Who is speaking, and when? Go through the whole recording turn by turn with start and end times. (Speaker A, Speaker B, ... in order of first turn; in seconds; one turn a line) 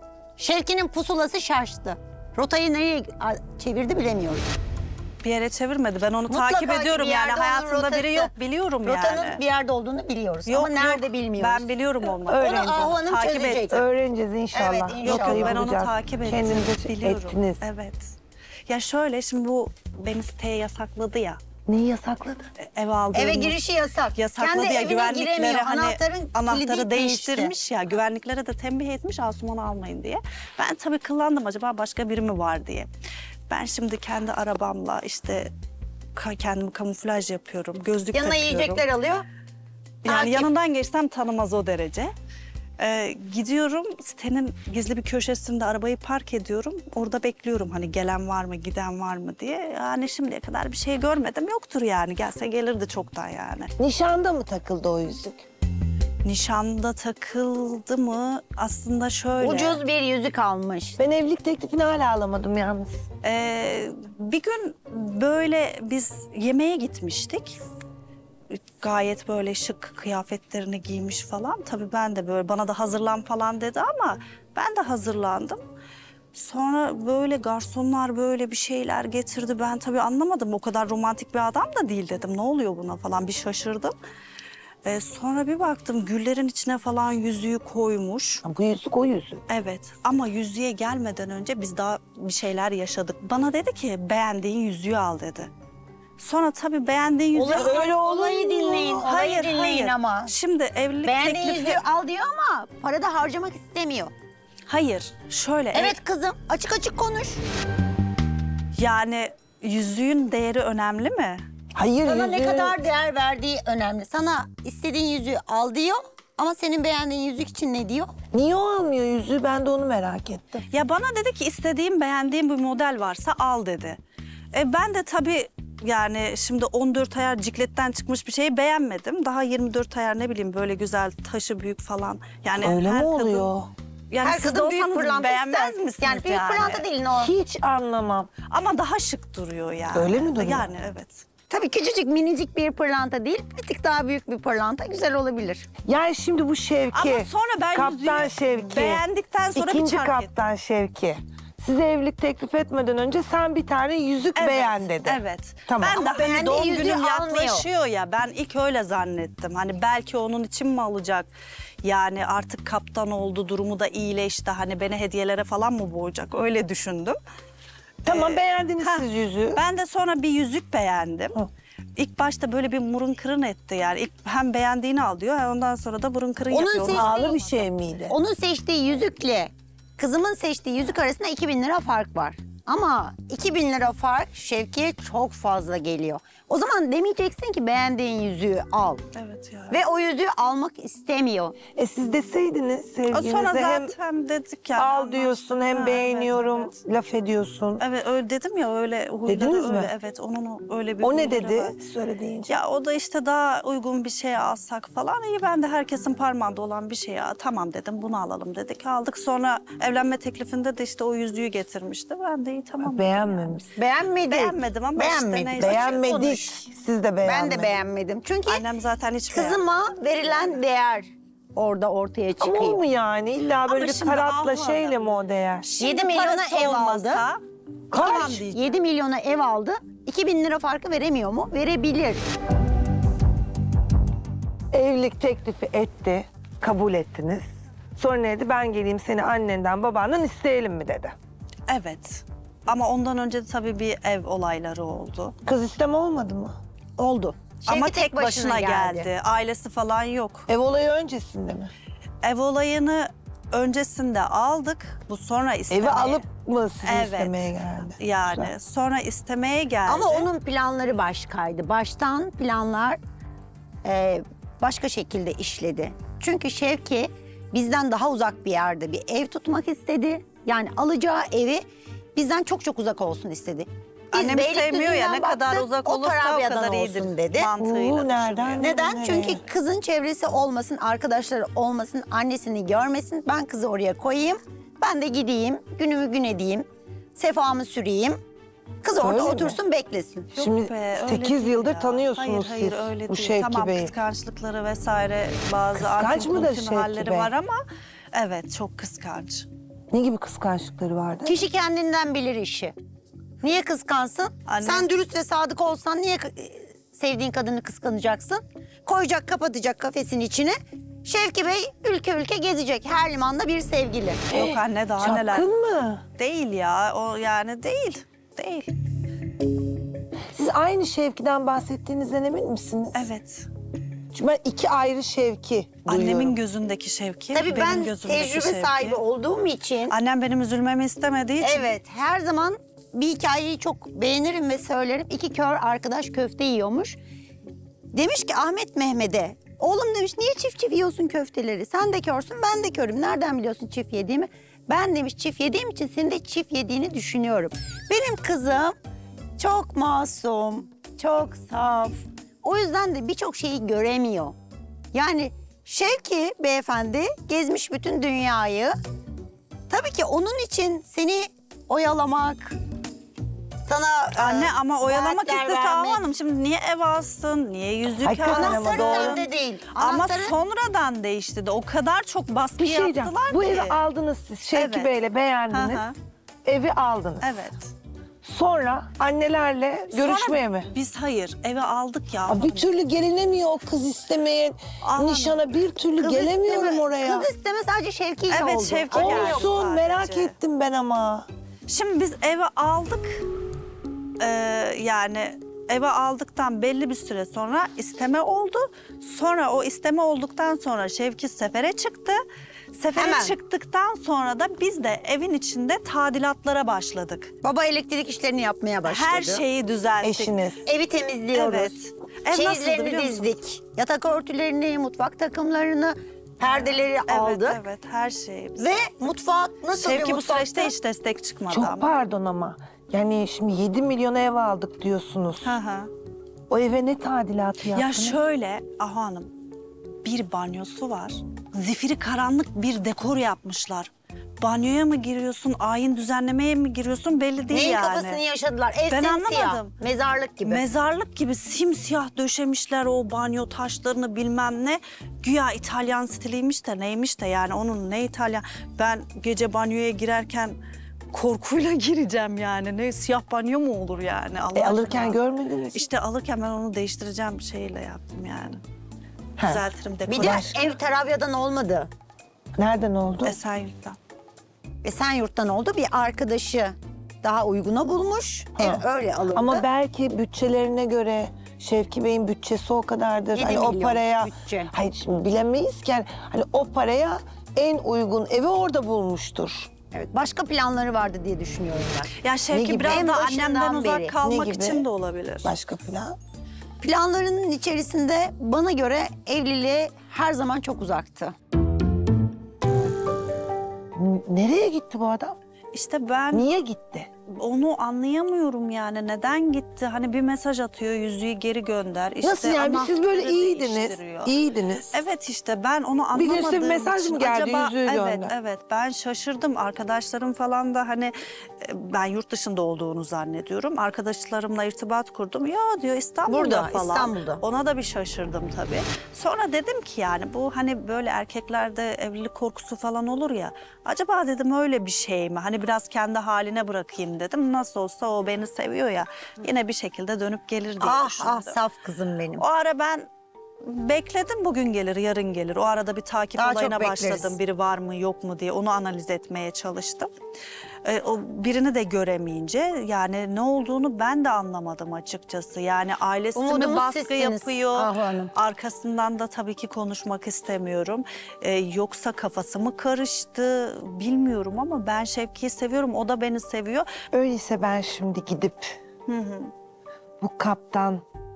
Speaker A: 0.4-4.5
Speaker B: 5.2-9.4
Speaker A: 6.3-8.3
Speaker A: 8.8-11.7
Speaker B: 10.5-13.7
Speaker C: 12.3-12.9
Speaker A: 12.4-13.8
Speaker C: 13.7-17.6
Speaker A: 14.5-15.6
Speaker B: 15.0-18.1
Speaker B: 18.7-21.4
Speaker C: 21.7-22.5
Speaker B: 22.6-23.6
Speaker A: 23.1-27.5
Speaker B: 24.1-32.9
Speaker B: 33.5-35.5
Speaker B: 36.1-38.8
Speaker A: 38.1-39.2
Speaker B: 40.0-42.1
Speaker A: 40.1-40.5
Speaker B: 42.8-53.7
Speaker C: 53.8-55.5
Speaker B: 56.2-59.8
Speaker A: 59.4-61.0
Speaker C: 61.0-63.0
Speaker B: 63.2-67.6
Speaker B: 68.5-75.6
Speaker B: 76.3-83.9
Speaker B: 84.8-88.4
Speaker C: 88.4-89.4
Speaker B: 89.5-95.5
Speaker B: 96.2-98.0
Speaker A: 97.3-100.3
Speaker C: 97.5-99.1
Speaker B: 98.6-101.8
Speaker A: 101.0-104.1
Speaker B: 104.7-106.0
Speaker A: 105.7-107.4
Speaker B: 108.8-111.4
Speaker C: 111.8-112.8
Speaker A: 112.0-118.1
Speaker C: 118.3-120.7
Speaker B: 120.7-124.0
Speaker B: 124.5-133.5
Speaker C: 132.6-133.7
Speaker B: 134.1-136.8
Speaker A: 134.2-137.3
Speaker C: 137.2-138.3
Speaker B: 138.5-141.3
Speaker C: 139.9-140.7
Speaker A: 141.5-145.7
Speaker C: 145.9-156.0
Speaker B: 146.9-150.4
Speaker B: 154.3-161.3
Speaker A: 155.8-157.7
Speaker B: 161.8-167.2
Speaker C: 168.0-169.6
Speaker B: 168.1-177.7
Speaker A: 176.5-177.3
Speaker C: 176.9-178.2
Speaker A: 178.1-189.0
Speaker B: 189.2-189.8
Speaker A: 189.7-191.6
Speaker C: 191.8-193.9
Speaker B: 193.1-196.7
Speaker C: 194.8-197.8
Speaker B: 197.8-201.8
Speaker C: 199.3-199.9
Speaker C: 201.0-202.5
Speaker B: 202.5-213.6
Speaker C: 212.8-213.8
Speaker A: 213.8-216.6
Speaker B: 214.3-216.0
Speaker C: 215.6-217.8
Speaker A: 217.2-218.7
Speaker B: 218.5-219.6
Speaker A: 219.3-222.8
Speaker C: 222.4-225.7
Speaker B: 223.7-225.1
Speaker B: 225.6-227.4
Speaker A: 225.8-227.2
Speaker B: 227.9-228.6
Speaker A: 227.9-232.2
Speaker C: 227.9-228.3
Speaker C: 234.7-241.2
Speaker B: 241.7-245.3
Speaker C: 245.4-246.6
Speaker A: 247.0-249.1
Speaker B: 247.7-250.5
Speaker C: 250.5-251.7
Speaker B: 252.2-256.2
Speaker C: 255.7-258.5
Speaker B: 256.9-257.4
Speaker B: 258.0-260.3
Speaker A: 259.9-263.0
Speaker A: 263.8-271.6
Speaker A: 272.1-277.5
Speaker B: 274.1-278.8
Speaker C: 277.6-279.4
Speaker A: 278.6-288.2
Speaker A: 288.8-290.3
Speaker C: 288.9-289.6
Speaker B: 290.4-297.6
Speaker C: 290.4-293.9
Speaker C: 295.8-297.3
Speaker B: 298.1-299.5
Speaker C: 299.9-301.4
Speaker A: 301.2-302.8
Speaker A: 303.4-314.2
Speaker B: 304.5-304.9
Speaker C: 314.3-316.1
Speaker B: 314.3-315.5
Speaker B: 316.2-318.7
Speaker C: 320.3-323.1
Speaker B: 322.9-323.5
Speaker C: 324.1-326.4
Speaker B: 325.9-329.0
Speaker A: 327.3-329.9
Speaker B: 329.9-331.7
Speaker A: 331.4-337.0
Speaker A: 337.9-348.8
Speaker A: 349.4-354.4
Speaker A: 354.9-358.8
Speaker A: 359.7-362.6
Speaker A: 363.7-366.0
Speaker B: 364.1-373.8
Speaker C: 368.0-369.2
Speaker A: 368.2-370.4
Speaker C: 372.6-375.9
Speaker B: 374.6-374.9
Speaker B: 375.5-375.9
Speaker C: 376.4-377.4
Speaker B: 377.2-377.7
Speaker C: 378.2-380.7
Speaker B: 379.9-382.7
Speaker C: 382.3-387.3
Speaker B: 384.8-385.4
Speaker A: 386.0-389.4
Speaker B: 388.3-390.4
Speaker C: 388.9-391.3
Speaker B: 391.7-393.2
Speaker B: 394.2-402.2
Speaker B: 402.7-407.3
Speaker A: 403.0-403.4
Speaker A: 407.4-409.4
Speaker B: 408.9-410.5
Speaker C: 410.0-410.6
Speaker A: 410.7-411.8
Speaker B: 411.3-413.3
Speaker A: 412.3-417.6
Speaker B: 417.1-418.7
Speaker A: 418.6-420.7
Speaker B: 419.7-421.9
Speaker C: 421.5-425.6
Speaker B: 425.4-425.9
Speaker C: 426.5-428.2
Speaker B: 427.7-429.3
Speaker B: 430.0-433.9
Speaker B: 434.4-438.2
Speaker A: 437.5-440.6
Speaker B: 438.9-439.8
Speaker B: 440.5-450.6
Speaker B: 451.1-455.2
Speaker C: 454.5-455.9
Speaker B: 455.7-458.6
Speaker C: 459.4-459.6
Speaker B: 459.4-460.7
Speaker A: 460.1-461.9
Speaker C: 460.2-460.6
Speaker C: 462.6-463.4
Speaker B: 463.2-464.0
Speaker A: 464.8-469.6
Speaker C: 468.6-479.7
Speaker A: 473.3-474.7
Speaker A: 479.9-482.1
Speaker B: 482.2-485.5
Speaker C: 482.5-483.1
Speaker A: 482.8-484.2
Speaker C: 484.2-484.8
Speaker C: 485.4-486.2
Speaker A: 486.8-491.4
Speaker C: 493.9-495.4
Speaker B: 495.7-496.5
Speaker C: 496.3-497.1
Speaker B: 497.3-504.3
Speaker C: 502.2-505.0
Speaker B: 504.9-531.6
Speaker C: 506.1-508.3
Speaker A: 516.3-517.4
Speaker A: 530.8-532.4
Speaker B: 532.4-533.1
Speaker B: 533.6-540.1
Speaker A: 536.4-537.3
Speaker B: 540.8-556.9
Speaker A: 546.4-548.3
Speaker C: 557.1-558.8
Speaker B: 559.1-559.5
Speaker C: 560.2-561.0